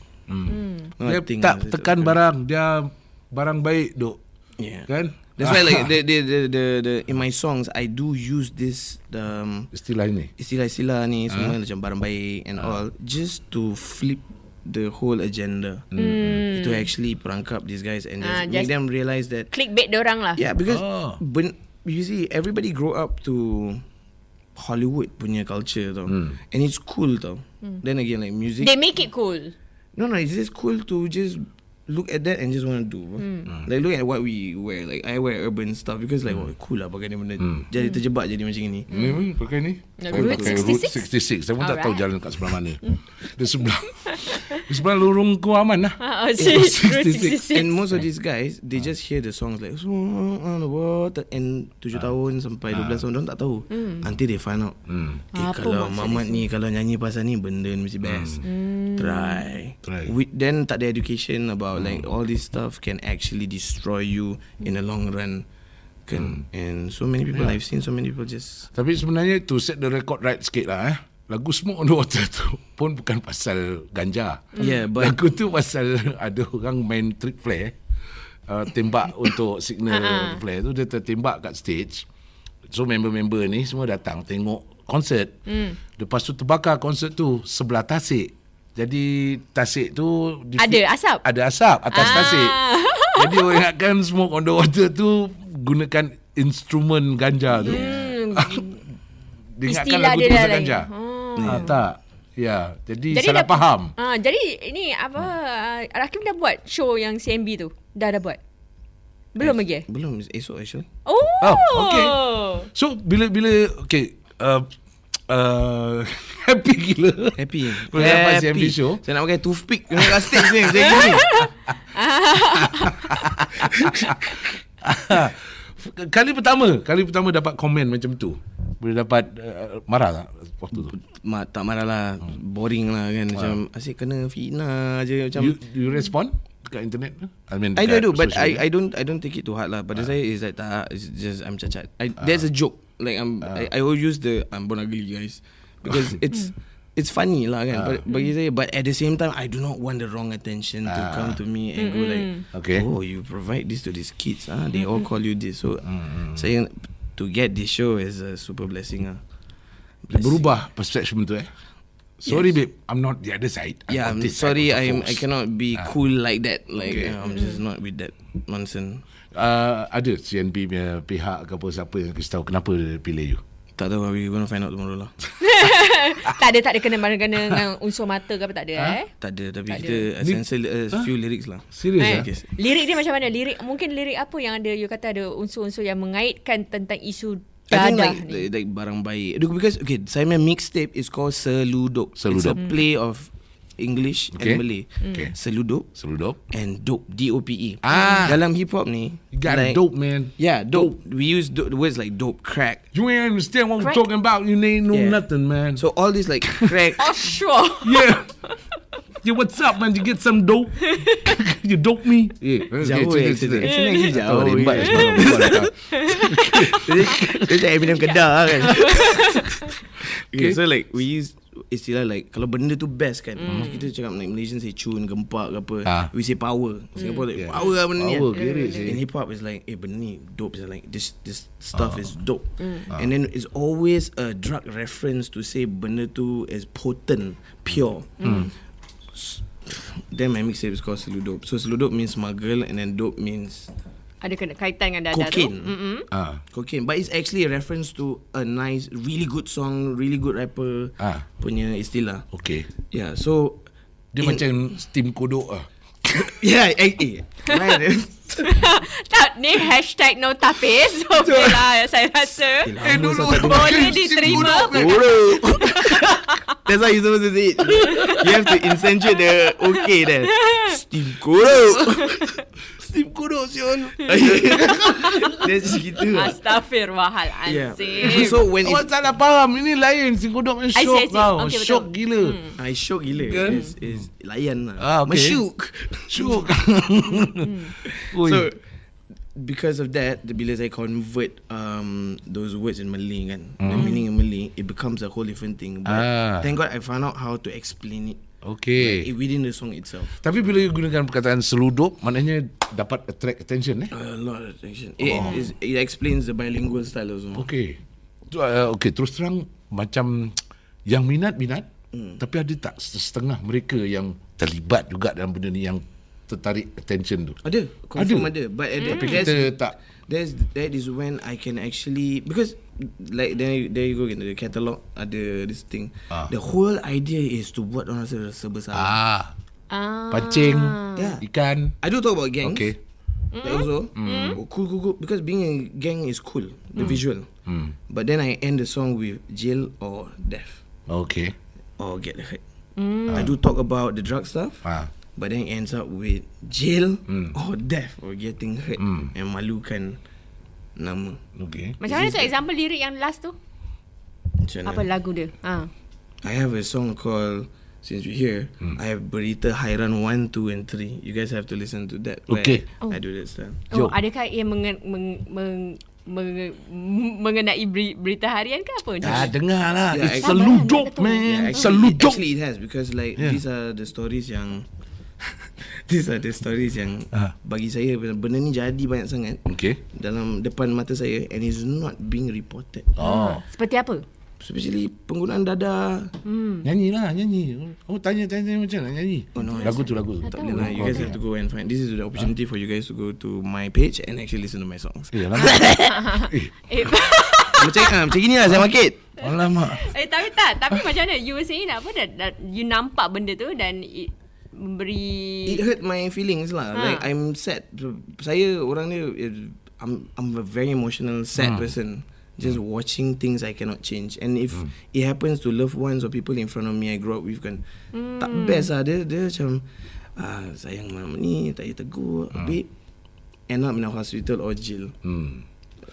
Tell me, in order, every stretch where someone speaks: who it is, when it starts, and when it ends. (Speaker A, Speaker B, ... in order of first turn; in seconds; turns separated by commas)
Speaker A: 0.3-4.2, Speaker B: 0.5-0.9, Speaker C: 1.0-2.2, Speaker C: 4.6-9.7, Speaker A: 4.9-5.9, Speaker A: 9.7-10.3, Speaker C: 10.3-15.9, Speaker A: 11.3-11.6, Speaker A: 15.9-16.5, Speaker B: 15.9-16.9, Speaker C: 16.4-19.5, Speaker B: 18.2-18.7, Speaker B: 19.5-20.4, Speaker C: 20.4-23.8, Speaker A: 20.7-21.2, Speaker C: 24.6-28.7, Speaker A: 26.1-26.4, Speaker B: 28.6-29.5, Speaker C: 29.9-38.9, Speaker B: 33.2-33.5, Speaker A: 37.4-37.7, Speaker B: 38.9-39.3, Speaker A: 38.9-47.3, Speaker B: 40.0-42.1, Speaker C: 40.1-40.8, Speaker B: 44.0-44.7, Speaker B: 46.0-47.8, Speaker C: 46.4-54.8, Speaker A: 52.7-53.0, Speaker B: 53.7-54.0, Speaker A: 54.9-55.2, Speaker C: 55.3-65.5, Speaker B: 55.3-56.4, Speaker A: 58.0-58.4, Speaker B: 58.4-59.5, Speaker A: 59.8-60.1, Speaker A: 61.7-62.1, Speaker C: 66.1-68.7, Speaker A: 66.2-66.4, Speaker A: 68.7-77.7, Speaker C: 74.5-75.2, Speaker A: 78.5-82.0, Speaker B: 79.9-80.4, Speaker A: 82.7-85.4, Speaker B: 85.5-85.8, Speaker A: 86.0-92.6, Speaker B: 90.6-91.2, Speaker B: 91.9-93.6, Speaker A: 93.1-98.7, Speaker C: 97.6-98.0, Speaker B: 97.6-98.8, Speaker A: 99.6-100.9, Speaker B: 99.6-101.7, Speaker C: 101.3-101.7, Speaker A: 101.4-103.9, Speaker B: 103.1-108.4, Speaker B: 109.3-109.8, Speaker C: 109.4-110.9, Speaker B: 111.0-112.7, Speaker A: 111.4-112.2, Speaker A: 112.7-114.7, Speaker A: 115.3-119.0, Speaker C: 117.3-121.5, Speaker A: 120.0-120.7, Speaker B: 121.0-123.2, Speaker A: 122.3-130.9, Speaker C: 123.6-124.1, Speaker C: 130.8-135.6, Speaker A: 135.3-138.6, Speaker C: 137.8-159.2, Speaker A: 142.2-142.5, Speaker A: 143.4-143.7, Speaker A: 145.8-146.2, Speaker A: 147.7-148.0, Speaker A: 150.8-151.4, Speaker B: 151.8-152.4, Speaker A: 152.5-152.9, Speaker A: 155.8-156.4, Speaker C: 160.0-160.6, Speaker A: 160.1-161.5, Speaker A: 162.2-165.9, Speaker C: 162.2-162.5, Speaker C: 163.9-169.0, Speaker A: 166.8-167.2, Speaker B: 167.2-167.6, Speaker A: 169.3-173.4, Speaker C: 173.8-175.2, Speaker B: 175.4-179.1, Speaker C: 179.2-182.5, Speaker B: 179.7-180.0, Speaker A: 180.2-181.1, Speaker A: 181.7-182.3, Speaker B: 182.0-188.5, Speaker C: 187.7-195.9, Speaker A: 192.2-192.6, Speaker A: 194.3-195.3, Speaker B: 195.0-195.3, Speaker A: 195.9-196.4, Speaker C: 196.5-199.8, Speaker A: 197.8-198.4, Speaker B: 197.9-198.3, Speaker A: 199.3-200.9, Speaker C: 200.4-202.8, Speaker A: 202.9-205.8, Speaker C: 204.9-205.2, Speaker C: 205.7-207.3, Speaker A: 206.4-206.8, Speaker B: 207.0-208.6, Speaker A: 207.8-208.3, Speaker A: 209.2-217.6, Speaker B: 210.8-211.3, Speaker C: 212.8-215.7, Speaker B: 213.6-214.1, Speaker B: 214.8-216.8, Speaker C: 216.6-238.4, Speaker B: 217.8-219.7, Speaker A: 220.3-220.6, Speaker B: 223.4-223.9, Speaker A: 225.8-226.1, Speaker B: 227.0-227.7, Speaker A: 227.3-229.0, Speaker B: 228.2-229.0, Speaker A: 231.7-232.1, Speaker B: 232.6-232.8, Speaker B: 238.2-238.5, Speaker A: 238.2-238.5, Speaker C: 239.1-243.7, Speaker B: 244.2-246.1, Speaker C: 245.1-245.7, Speaker A: 246.1-246.4, Speaker C: 246.5-252.3, Speaker A: 251.0-251.2, Speaker A: 252.3-252.7, Speaker C: 252.9-253.6, Speaker A: 254.1-256.4, Speaker C: 254.2-254.5, Speaker C: 256.1-258.6, Speaker B: 258.4-266.5, Speaker C: 261.2-261.6, Speaker C: 262.6-272.3, Speaker A: 262.8-265.7, Speaker A: 267.7-268.2, Speaker B: 267.8-268.3, Speaker B: 270.3-270.8, Speaker B: 271.7-272.4, Speaker A: 272.8-276.0, Speaker C: 274.0-276.4, Speaker B: 276.1-278.4, Speaker C: 277.4-278.9, Speaker A: 278.0-282.4, Speaker B: 280.7-282.6, Speaker C: 282.6-286.4, Speaker A: 283.3-284.0, Speaker A: 284.8-285.4, Speaker A: 286.1-288.5, Speaker B: 287.3-287.7, Speaker C: 287.8-288.6, Speaker C: 289.3-298.2, Speaker A: 293.6-293.9, Speaker B: 293.7-294.0, Speaker A: 295.8-296.5, Speaker A: 298.4-299.1, Speaker C: 298.8-300.2, Speaker A: 300.1-303.9, Speaker C: 303.9-307.5, Speaker A: 305.0-305.4, Speaker B: 305.2-305.5, Speaker A: 307.3-307.8, Speaker A: 308.3-311.7, Speaker C: 311.9-312.2, Speaker A: 312.2-317.4, Speaker C: 317.4-329.0, Speaker A: 317.9-318.3, Speaker B: 318.8-319.2, Speaker A: 318.8-319.8, Speaker A: 328.7-329.3, Speaker B: 329.7-331.2, Speaker A: 330.1-331.8, Speaker C: 330.9-331.2, Speaker C: 331.8-332.7, Speaker A: 332.4-332.8, Speaker B: 333.3-334.4, Speaker C: 333.4-337.3, Speaker A: 333.9-334.4, Speaker A: 337.4-337.7, Speaker C: 337.9-340.6, Speaker A: 340.9-341.3, Speaker C: 341.8-342.4, Speaker B: 342.8-343.3, Speaker A: 343.1-343.3, Speaker C: 343.1-344.6, Speaker A: 344.6-344.9, Speaker C: 345.1-350.0, Speaker A: 347.1-347.3, Speaker A: 348.8-349.1, Speaker C: 350.8-351.2, Speaker A: 351.4-351.8, Speaker B: 351.8-353.3, Speaker C: 351.8-352.3, Speaker C: 354.4-354.9, Speaker B: 354.6-355.7, Speaker C: 356.2-363.6, Speaker A: 362.3-362.6, Speaker B: 363.7-369.3, Speaker A: 363.7-364.0, Speaker C: 369.0-369.3, Speaker A: 369.0-372.2, Speaker C: 369.9-370.5, Speaker B: 370.2-371.7, Speaker C: 371.2-374.7, Speaker C: 375.4-383.0, Speaker A: 379.5-379.8, Speaker A: 382.9-383.4, Speaker B: 383.0-384.0, Speaker C: 384.4-386.1, Speaker B: 386.2-386.7, Speaker A: 386.6-391.2, Speaker C: 389.3-396.0, Speaker B: 389.4-391.0, Speaker A: 395.1-396.5, Speaker B: 395.6-398.0, Speaker C: 397.5-399.0, Speaker A: 399.2-399.9, Speaker B: 399.2-405.6, Speaker C: 405.4-417.6, Speaker B: 406.7-407.1, Speaker A: 411.4-411.7, Speaker B: 417.9-418.7, Speaker C: 418.2-419.6, Speaker C: 420.1-422.7, Speaker C: 423.5-424.9, Speaker A: 425.0-425.4